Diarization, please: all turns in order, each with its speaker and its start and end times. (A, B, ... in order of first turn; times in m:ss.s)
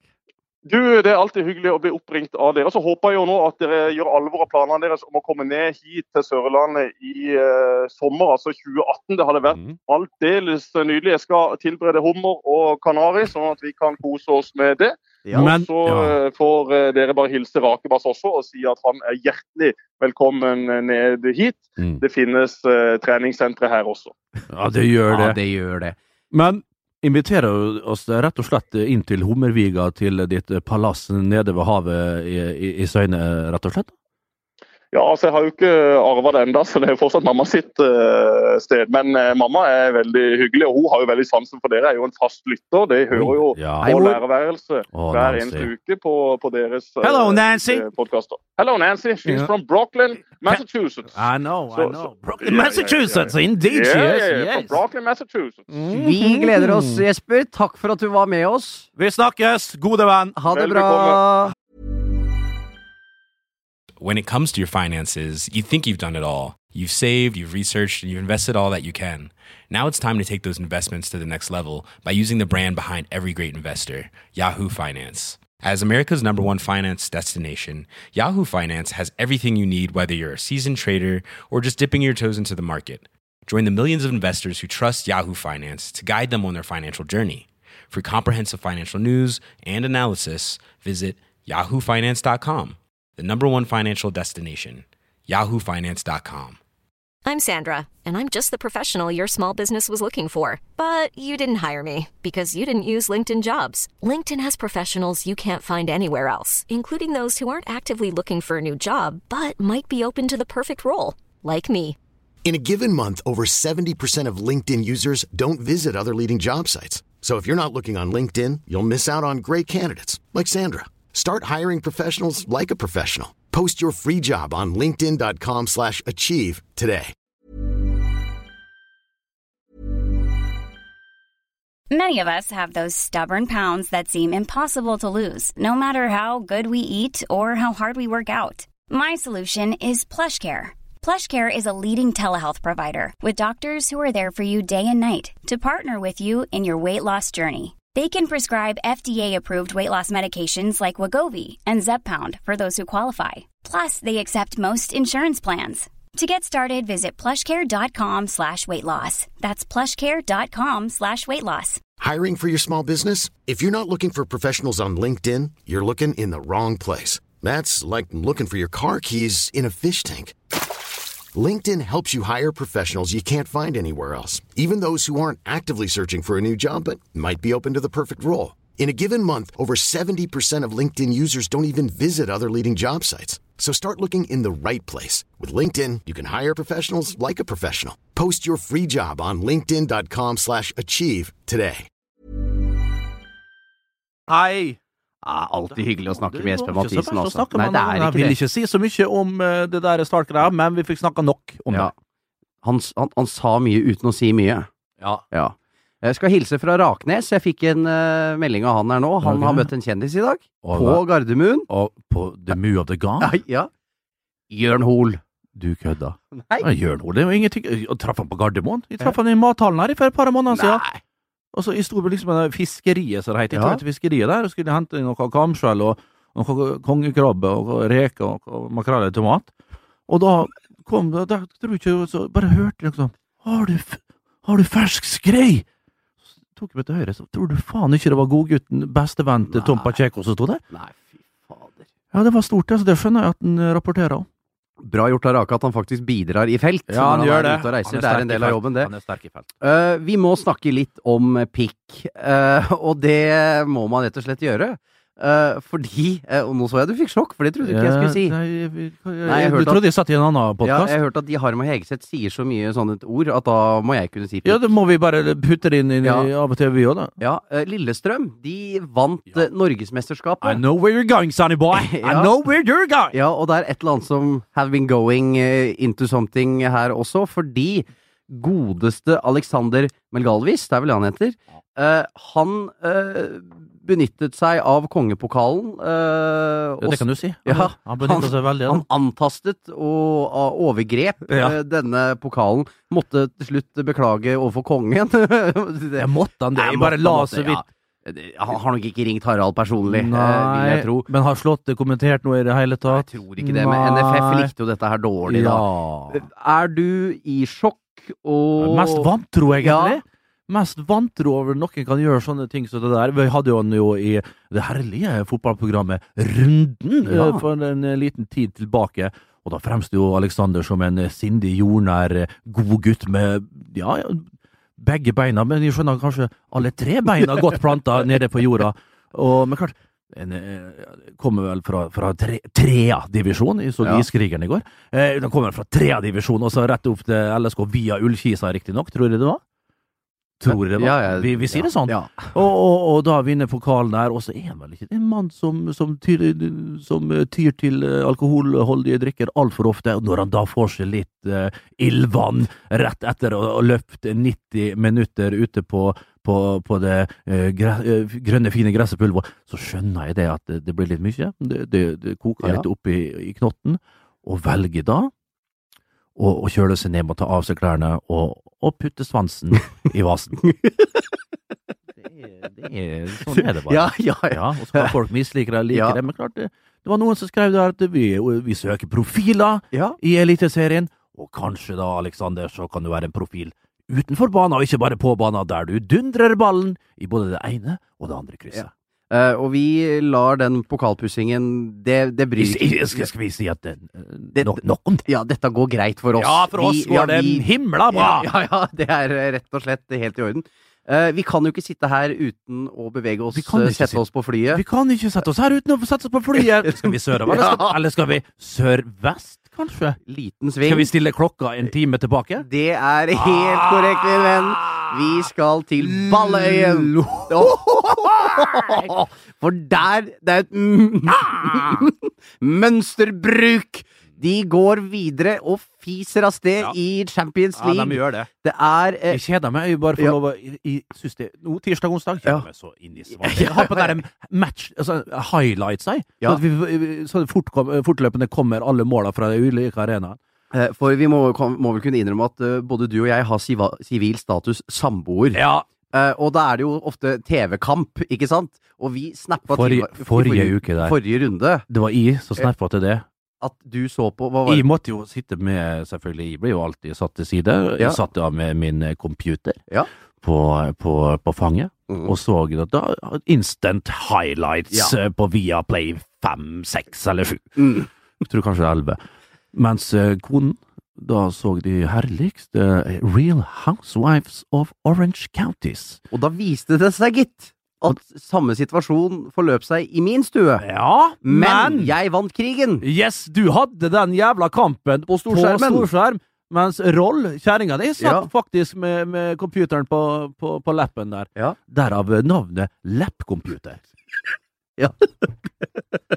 0:00.7-0:24.1 A
0:15.2-0:15.5 B
0:15.3-0:16.2 C
0:24.5-0:25.4 C
0:25.1-0:26.0 B
0:26.3-0:33.9 C
0:34.9-0:51.2 A
0:43.1-0:43.9 C
0:43.8-0:44.2 B
0:44.9-0:45.7 C
0:47.0-0:47.8 C
0:49.3-0:49.5 C
0:51.1-0:54.8 C
0:51.7-0:55.8 A
0:55.7-0:57.0 C
0:55.9-0:58.9 B
0:59.0-1:00.4 C
1:00.4-1:01.5 B
1:00.5-1:01.2 A
1:04.0-1:36.6 D
1:37.3-1:52.0 E
1:52.4-2:07.1 F
2:11.9-2:41.8 G
2:42.0-2:50.4 F
2:51.3-3:11.9 F
3:14.3-3:14.8 C
3:15.2-3:18.4 B
3:15.8-3:21.9 C
3:22.6-3:24.7 B
3:25.3-3:31.7 B
3:29.2-3:29.7 C
3:30.6-3:31.0 C
3:31.7-3:33.4 C
3:33.2-3:33.7 B
3:34.5-3:35.2 B
3:35.6-3:40.8 C
3:36.3-3:36.7 B
3:40.5-3:41.0 B
3:41.5-3:49.5 C
3:43.5-3:43.8 B
3:50.1-3:55.6 C
3:56.6-4:00.6 C
3:59.5-4:00.0 B
4:00.7-4:01.9 B
4:02.1-4:04.3 C
4:04.8-4:08.9 B
4:06.9-4:09.5 C
4:09.6-4:18.4 B
4:17.6-4:21.0 C
4:19.2-4:19.8 B
4:20.6-4:24.7 B
4:24.4-4:27.1 C
4:26.0-4:26.3 B
4:27.2-4:30.6 B
4:30.4-4:33.2 C
4:31.7-4:32.3 B
4:33.1-5:01.1 B
4:46.8-4:48.8 C
4:51.3-4:51.6 C
4:56.0-4:57.6 C
4:59.9-5:04.5 C
5:02.9-5:09.1 B
5:05.3-5:06.2 C
5:08.6-5:24.3 C
5:09.6-5:10.0 B
5:17.0-5:17.4 B
5:24.8-5:39.4 C
5:40.4-6:05.1 C
5:40.5-5:42.3 B
6:06.2-6:10.5 C
6:10.4-6:10.9 B
6:12.0-6:28.7 C
6:13.3-6:14.9 B
6:15.7-6:16.0 B
6:19.7-6:20.0 B
6:28.5-6:33.1 B
6:32.4-6:35.1 C
6:34.4-6:44.6 B
6:36.2-6:38.3 C
6:43.3-6:50.0 C
6:46.7-6:47.7 B
6:50.1-6:50.9 B
6:50.6-6:52.5 C
6:52.4-7:09.2 B
6:53.2-6:54.9 C
6:55.8-6:58.9 C
7:01.3-7:01.8 C
7:07.6-7:08.3 C
7:09.1-7:20.2 C
7:13.1-7:14.0 B
7:20.5-7:31.6 B
7:25.3-7:25.6 C
7:29.5-7:31.0 C
7:31.7-7:33.0 C
7:33.4-7:34.7 B
7:34.5-7:39.6 C
7:40.2-7:49.0 C
7:47.6-7:47.9 B
7:49.5-7:56.0 C
7:56.1-8:00.6 B
8:00.6-8:01.9 C
8:01.2-8:02.8 B
8:02.8-8:13.8 C
8:05.1-8:05.9 B
8:08.0-8:08.3 B
8:14.8-8:15.7 B